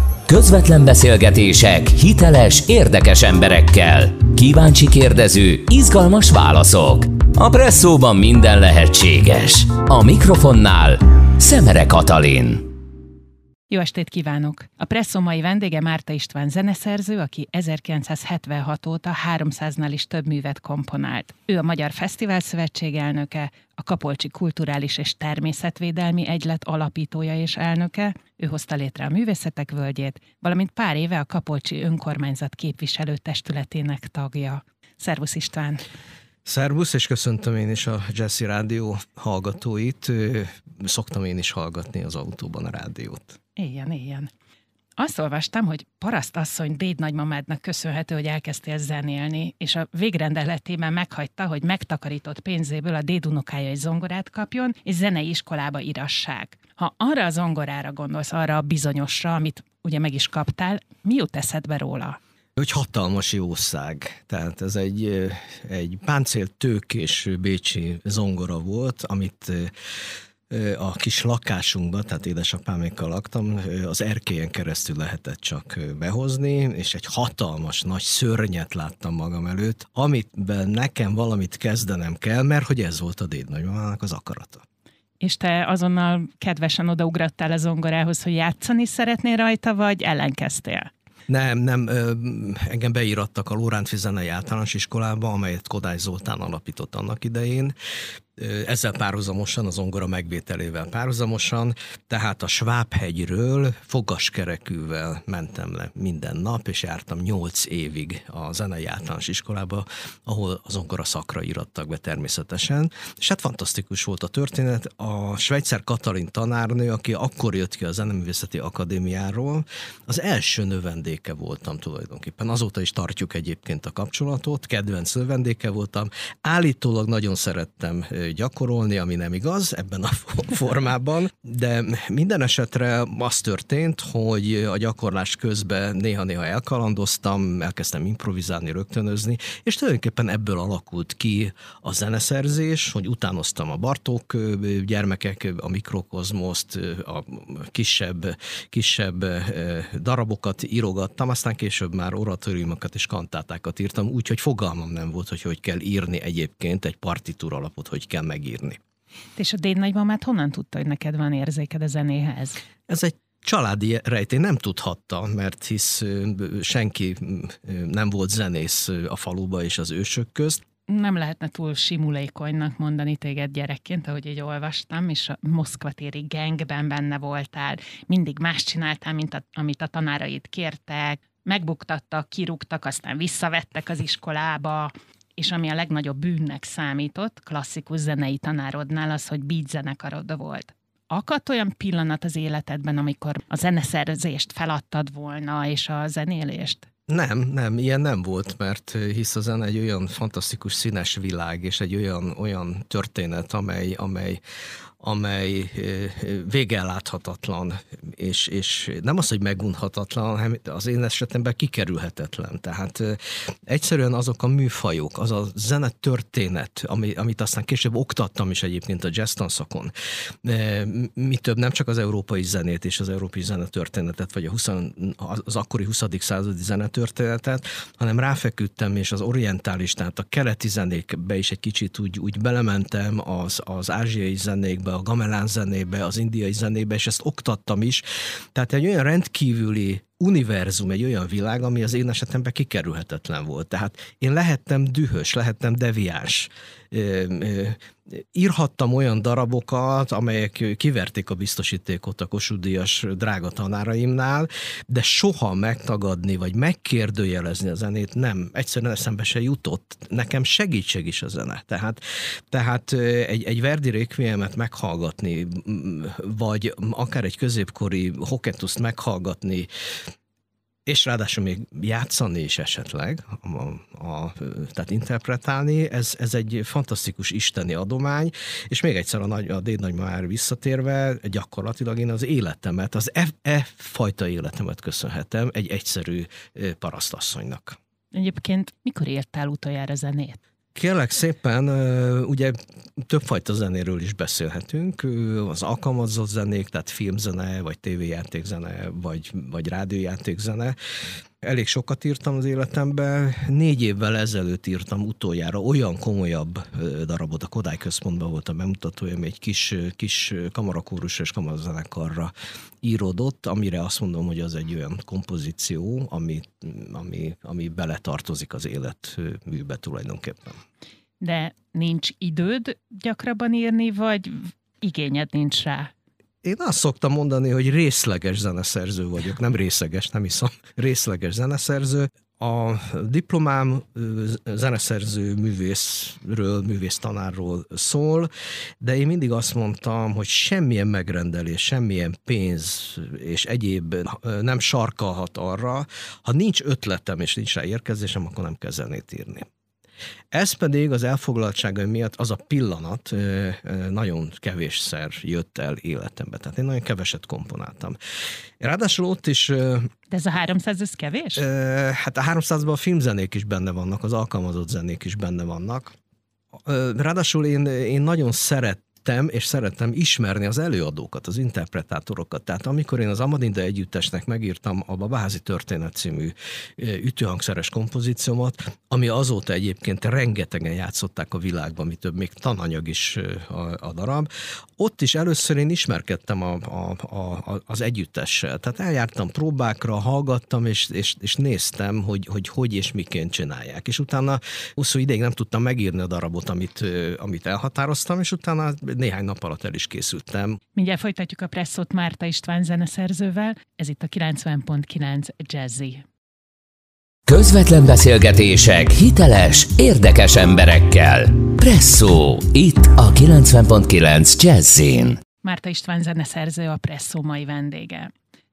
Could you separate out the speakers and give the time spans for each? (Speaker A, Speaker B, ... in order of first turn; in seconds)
Speaker A: 0.3-12.7, 407.3-415.2
Speaker B: 13.7-35.8, 43.6-44.3, 45.0-62.2, 85.2-90.9, 159.3-162.6, 170.9-196.9, 288.1-290.4, 321.2-325.9, 360.1-361.4, 400.8-406.0, 415.4-418.1
Speaker C: 36.4-43.4, 62.6-69.7, 70.5-84.6, 91.3-97.7, 98.3-158.8, 162.9-170.6, 197.1-204.4, 205.0-219.9, 220.4-269.7, 270.9-287.8, 290.7-300.7, 301.4-320.6, 326.4-349.4, 350.3-358.0, 358.6-359.9, 361.4-365.9, 366.6-400.6